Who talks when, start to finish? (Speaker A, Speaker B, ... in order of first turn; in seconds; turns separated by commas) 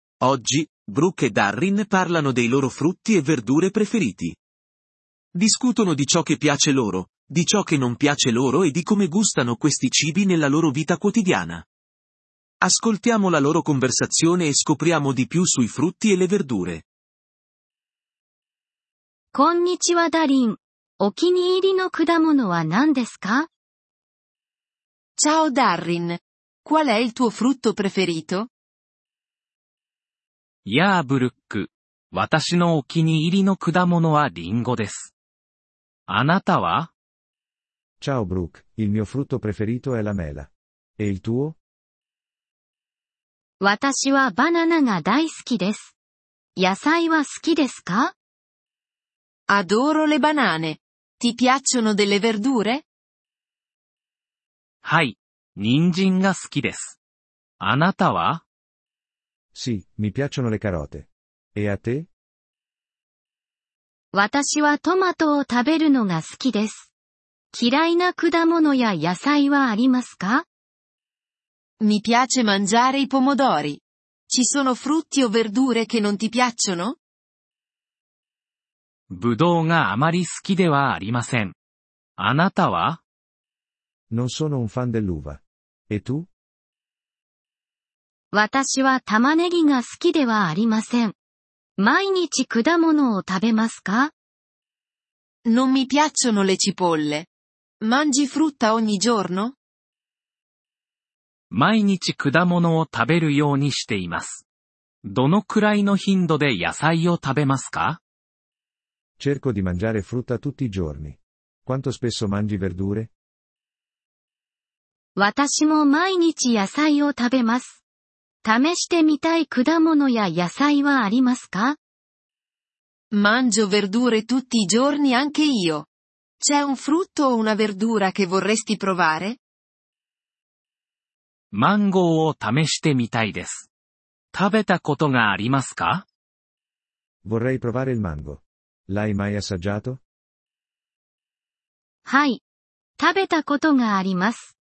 Speaker A: 0.2-4.4, Speaker A: 5.3-11.7, Speaker A: 12.6-16.9, Speaker B: 19.3-23.5, Speaker C: 25.2-28.5, Speaker D: 30.6-35.1, Speaker D: 36.1-36.9, Speaker E: 38.0-41.6, Speaker B: 43.6-45.9, Speaker B: 46.6-48.1, Speaker C: 49.5-52.8, Speaker D: 54.8-57.0, Speaker D: 57.6-58.4, Speaker E: 59.5-62.1, Speaker B: 64.1-66.9, Speaker B: 67.5-70.5, Speaker C: 71.8-77.0, Speaker D: 79.1-81.5, Speaker D: 82.2-83.0, Speaker E: 84.1-86.3, Speaker B: 88.3-91.2, Speaker B: 91.8-94.1, Speaker C: 95.5-97.3, Speaker C: 97.8-99.5, Speaker D: 101.5-104.5, Speaker D: 105.0-108.0, Speaker E: 109.2-113.1, Speaker B: 115.2-117.8, Speaker B: 118.4-121.8, Speaker C: 123.1-125.9, Speaker C: 126.4-129.4, Speaker D: 131.5-133.7, Speaker D: 134.3-136.1, Speaker E: 137.2-140.0, Speaker B: 142.1-142.4, Speaker B: 143.0-144.6